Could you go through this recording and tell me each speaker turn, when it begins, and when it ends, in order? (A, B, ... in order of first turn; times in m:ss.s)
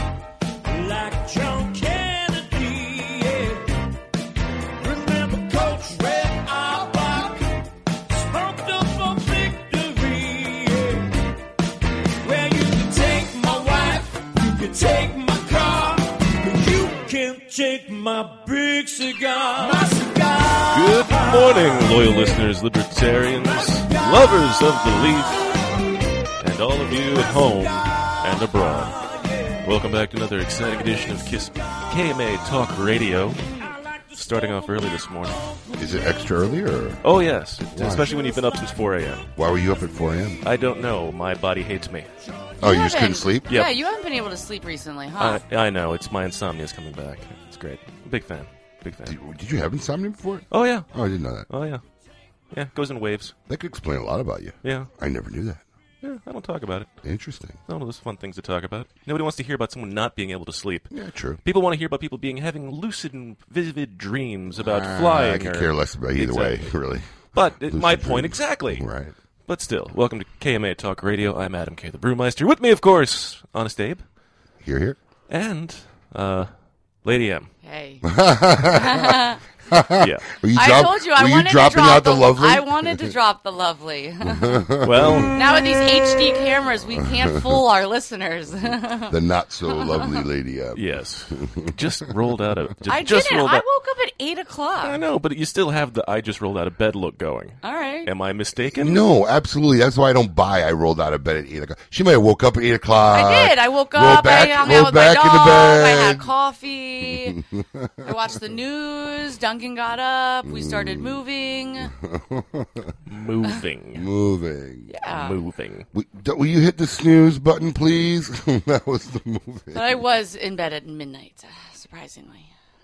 0:00.6-0:03.6 A
0:04.8-0:07.4 A
0:08.1-0:11.1 A
0:12.2-0:22.2 A
0:20.7-0:25.5 B
0:23.6-0:24.2 A
0:26.4-0:29.0 B
0:28.9-0:29.5 A
0:29.6-0:33.4 B
0:33.5-0:34.2 A
0:34.2-0:35.4 B
0:35.8-0:37.0 C
0:37.0-0:39.2 B
0:37.7-0:38.1 C
0:39.4-0:40.4 C
0:40.4-0:42.1 B
0:42.6-0:43.5 C
0:42.6-0:45.4 D
0:45.2-0:49.2 B
0:49.1-0:51.5 C
0:50.5-0:50.9 B
0:51.5-0:51.8 B
0:52.5-0:53.3 B
0:53.5-0:55.6 C
0:54.6-0:54.9 B
0:56.0-0:57.0 B
0:57.0-0:57.6 C
0:57.7-1:00.9 B
1:00.9-1:01.4 C
1:01.4-1:06.7 B
1:04.6-1:09.1 C
1:07.3-1:08.9 B
1:09.5-1:14.0 B
1:14.6-1:15.0 C
1:15.3-1:16.5 B
1:17.0-1:17.5 B
1:17.6-1:18.0 D
1:18.0-1:19.2 C
1:18.8-1:19.4 D
1:19.7-1:23.1 C
1:20.0-1:20.3 B
1:20.5-1:24.6 D
1:24.3-1:25.3 C
1:24.8-1:25.3 B
1:25.3-1:29.2 D
1:27.0-1:27.6 C
1:29.1-1:31.7 C
1:29.7-1:30.2 D
1:30.8-1:33.6 B
1:32.9-1:35.0 D
1:34.8-1:39.0 B
1:37.6-1:38.1 D
1:38.8-1:46.3 C
1:43.1-1:47.4 D
1:47.2-1:48.1 C
1:48.0-1:51.9 D
1:50.4-1:51.2 C
1:51.9-1:53.0 C
1:53.1-1:54.1 B
1:54.0-1:54.9 C
1:54.9-1:55.4 D
1:55.1-1:55.8 B
1:55.9-2:00.0 C
1:59.7-2:02.5 D